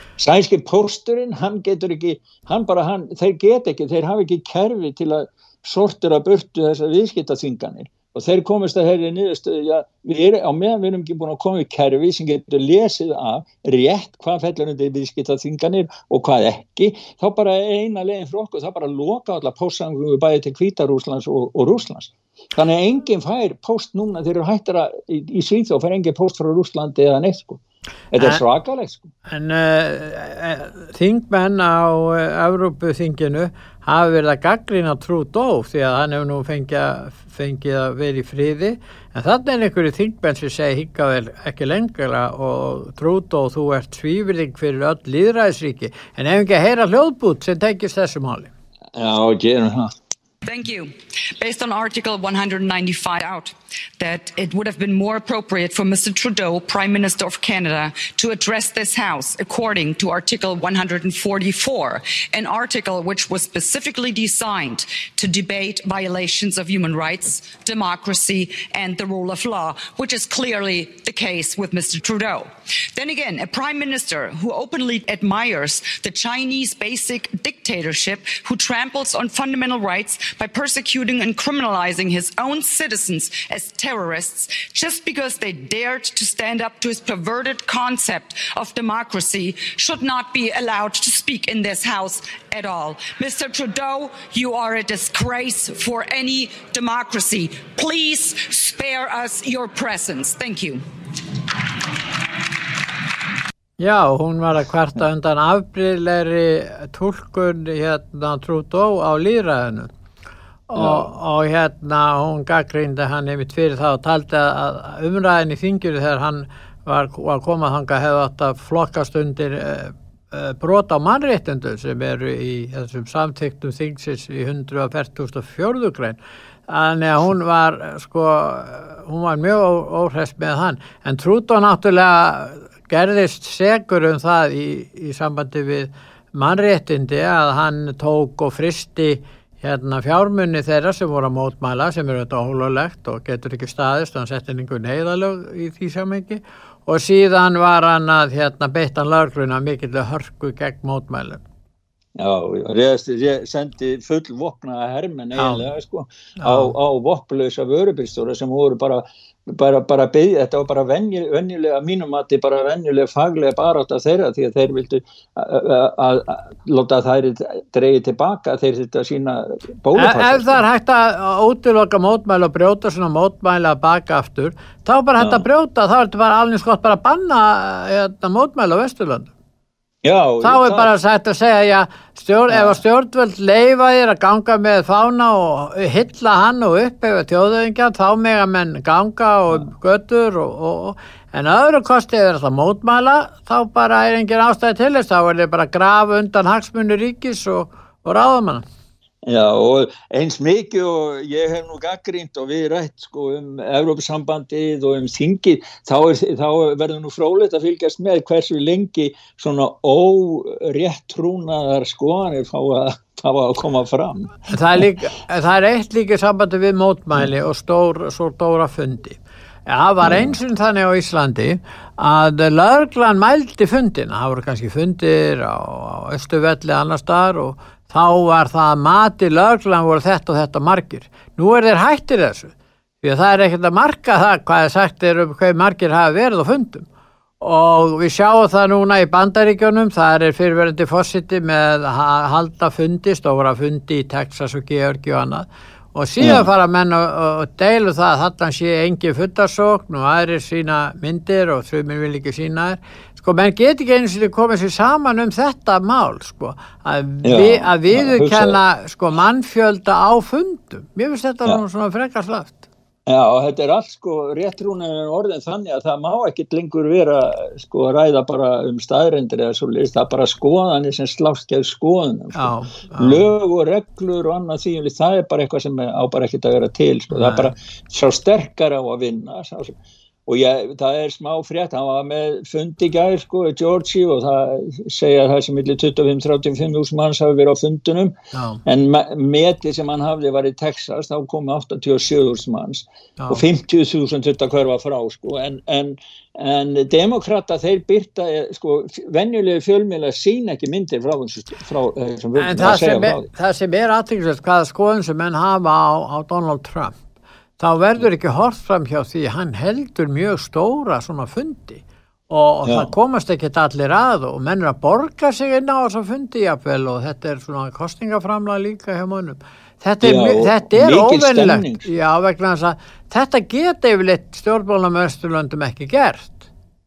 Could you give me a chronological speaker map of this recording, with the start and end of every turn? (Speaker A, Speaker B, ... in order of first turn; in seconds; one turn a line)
Speaker A: 0.2-27.6
Speaker A: 28.1-29.1
Speaker B: 29.3-48.5
Speaker A: 49.0-49.9
Speaker C: 50.4-100.8
Speaker B: 103.8-109.9
Speaker B: 110.7-151.4
Speaker A: 110.8-111.1
Speaker A: 152.2-170.6
Speaker B: 155.4-155.6
Speaker B: 156.4-156.7
Speaker B: 169.9-179.3
Speaker A: 175.2-175.4
Speaker A: 180.0-180.9
Speaker B: 180.4-198.7
Speaker A: 182.5-182.8
Speaker A: 199.3-214.8
Speaker B: 214.5-236.9
Speaker A: 220.0-220.3
Speaker B: 237.4-262.7
Speaker A: 246.2-246.4
Speaker A: 257.2-258.6
Speaker A: 263.1-279.8
Speaker B: 272.3-273.2
Speaker B: 277.1-277.5
Speaker A: 280.3-303.3
Speaker B: 288.3-288.6
Speaker B: 293.2-293.4
Speaker B: 302.4-307.0
Speaker B: 307.6-326.5
Speaker A: 312.7-312.9
Speaker A: 320.0-321.9